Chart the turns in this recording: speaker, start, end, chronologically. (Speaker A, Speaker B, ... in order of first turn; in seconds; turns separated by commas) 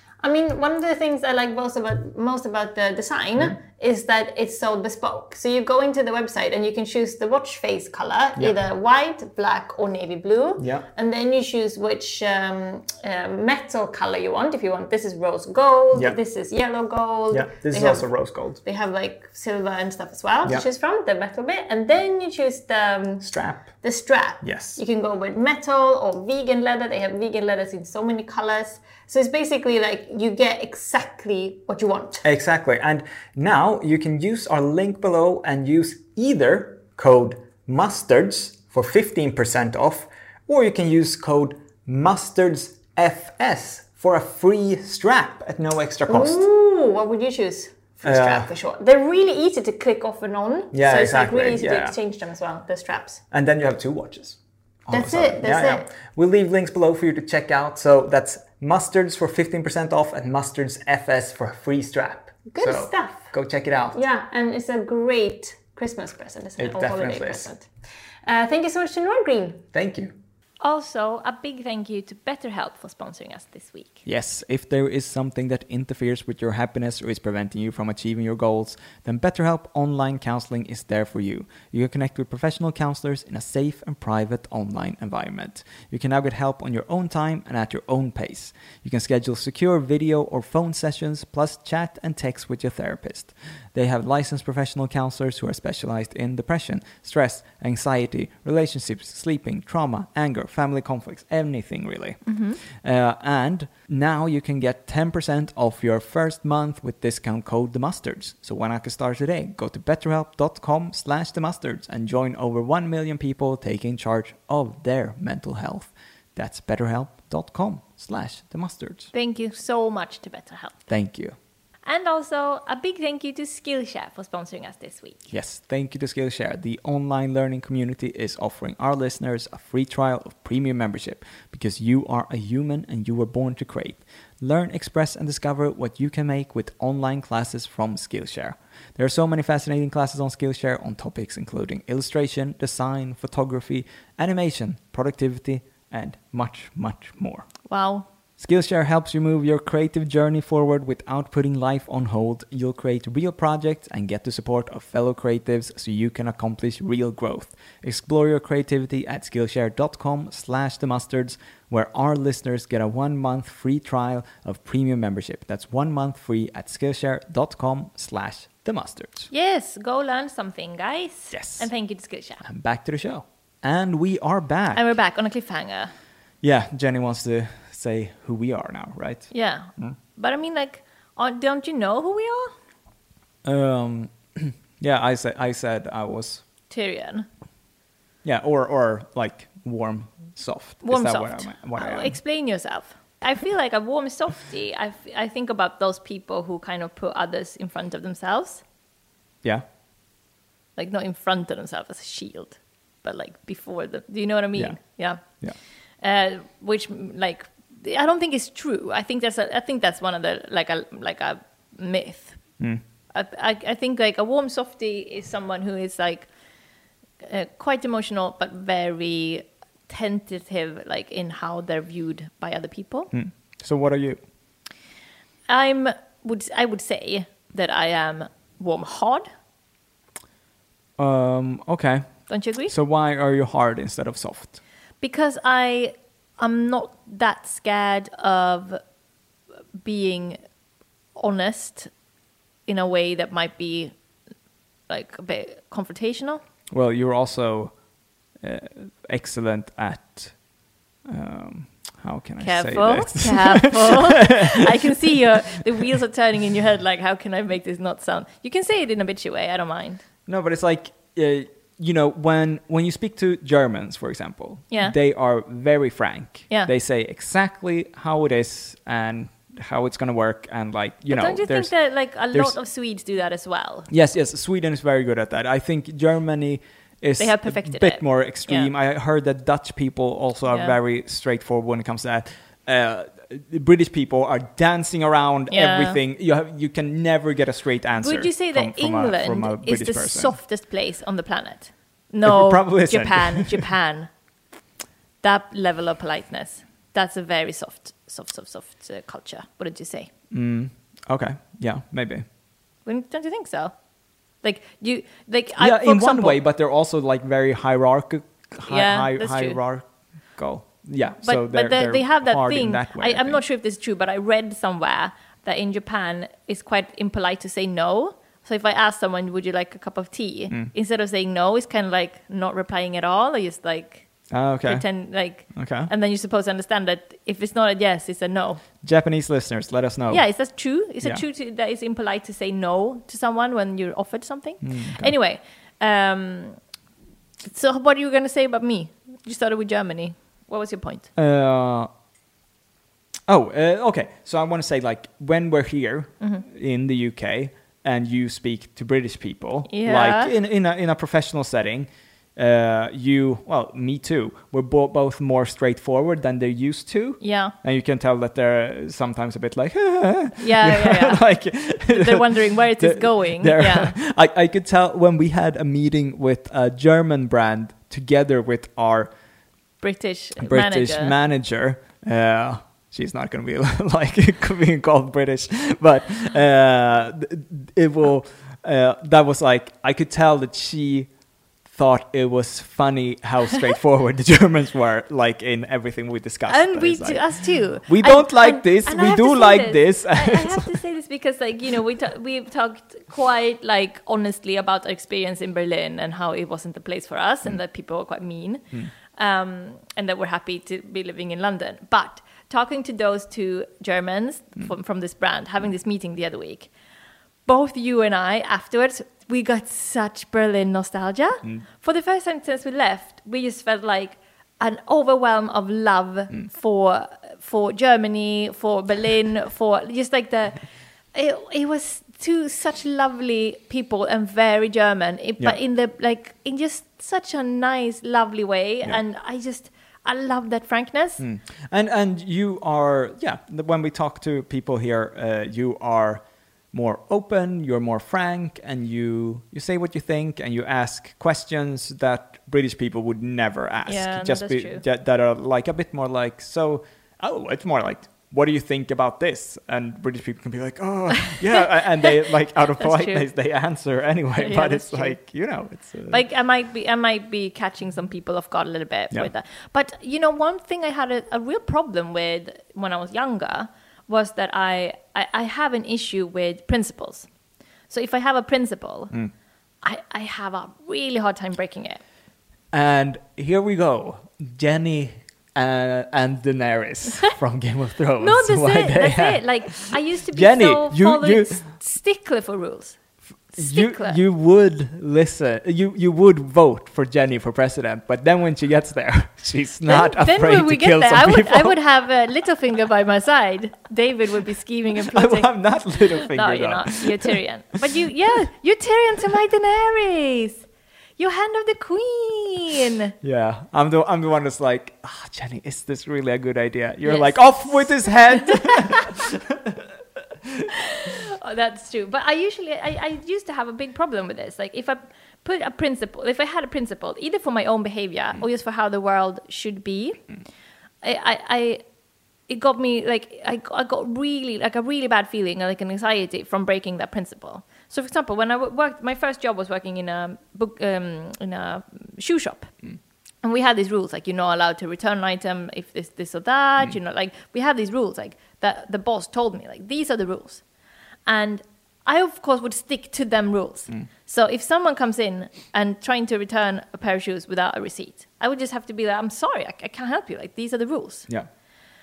Speaker A: 0.2-32.2, Speaker B: 10.6-10.9, Speaker B: 15.9-16.2, Speaker B: 17.3-18.6, Speaker B: 23.2-23.7, Speaker B: 24.4-24.8, Speaker B: 32.2-46.4, Speaker A: 46.1-53.2, Speaker B: 48.0-48.5, Speaker B: 50.7-52.0, Speaker B: 53.3-64.0, Speaker A: 54.9-55.9, Speaker A: 62.5-63.3, Speaker A: 63.9-67.7, Speaker B: 66.6-67.5, Speaker A: 68.2-69.7, Speaker B: 69.7-70.1, Speaker C: 70.6-74.0, Speaker B: 74.0-119.1, Speaker C: 102.2-102.6, Speaker C: 119.1-120.8, Speaker B: 120.9-121.3, Speaker C: 121.8-125.2, Speaker B: 125.3-147.5, Speaker C: 147.7-148.1, Speaker B: 148.4-169.3, Speaker C: 169.3-172.4, Speaker B: 171.3-171.7, Speaker B: 172.4-174.9, Speaker C: 174.7-175.9, Speaker B: 176.4-180.0, Speaker C: 179.3-182.5, Speaker B: 183.4-186.4, Speaker C: 186.7-187.3, Speaker B: 188.2-192.2, Speaker C: 190.8-198.6, Speaker C: 200.8-205.2, Speaker C: 206.0-212.4, Speaker C: 213.1-216.3, Speaker C: 217.2-223.1, Speaker B: 223.1-224.2, Speaker C: 225.5-229.3, Speaker B: 231.0-232.1, Speaker C: 232.3-232.7, Speaker B: 232.7-234.6, Speaker C: 235.0-238.8, Speaker C: 239.8-240.4, Speaker C: 241.2-241.9, Speaker C: 242.7-243.9, Speaker C: 244.9-246.4, Speaker B: 246.7-247.7, Speaker B: 248.4-250.3, Speaker B: 251.1-255.6, Speaker C: 252.4-260.0, Speaker B: 260.2-271.7, Speaker C: 271.1-273.9, Speaker B: 273.9-290.3, Speaker C: 277.2-278.7, Speaker C: 280.5-280.7, Speaker C: 285.5-286.0, Speaker C: 288.0-294.1, Speaker B: 292.2-293.7, Speaker C: 295.2-300.1, Speaker B: 300.3-302.2, Speaker C: 302.9-303.7, Speaker C: 304.4-306.4, Speaker B: 305.6-313.4, Speaker C: 308.7-309.6, Speaker C: 311.2-324.1, Speaker B: 324.3-324.9, Speaker C: 324.6-328.6, Speaker B: 325.5-325.9, Speaker B: 328.8-330.2, Speaker C: 330.1-336.6, Speaker B: 334.6-335.1, Speaker C: 337.4-341.1, Speaker B: 341.1-341.9, Speaker B: 343.3-369.1, Speaker C: 349.7-350.3, Speaker C: 357.2-357.5, Speaker C: 360.4-363.9, Speaker C: 369.8-371.1, Speaker B: 370.4-381.1, Speaker B: 381.7-387.2, Speaker C: 386.5-406.7, Speaker B: 387.9-390.7, Speaker C: 407.4-420.6, Speaker C: 421.1-431.2, Speaker B: 431.2-456.2, Speaker C: 443.9-444.8, Speaker C: 452.8-453.2, Speaker C: 454.4-455.2, Speaker C: 456.1-467.3, Speaker C: 467.9-469.1, Speaker C: 469.8-472.0, Speaker B: 472.7-481.7, Speaker C: 478.2-483.0, Speaker B: 483.5-491.8, Speaker C: 483.5-484.2, Speaker C: 489.9-500.6, Speaker B: 495.1-497.4, Speaker C: 501.2-503.1, Speaker B: 503.2-509.9, Speaker C: 507.0-509.0, Speaker C: 510.9-520.2, Speaker C: 521.0-521.8, Speaker C: 522.5-532.7, Speaker C: 533.4-540.6, Speaker C: 541.2-551.3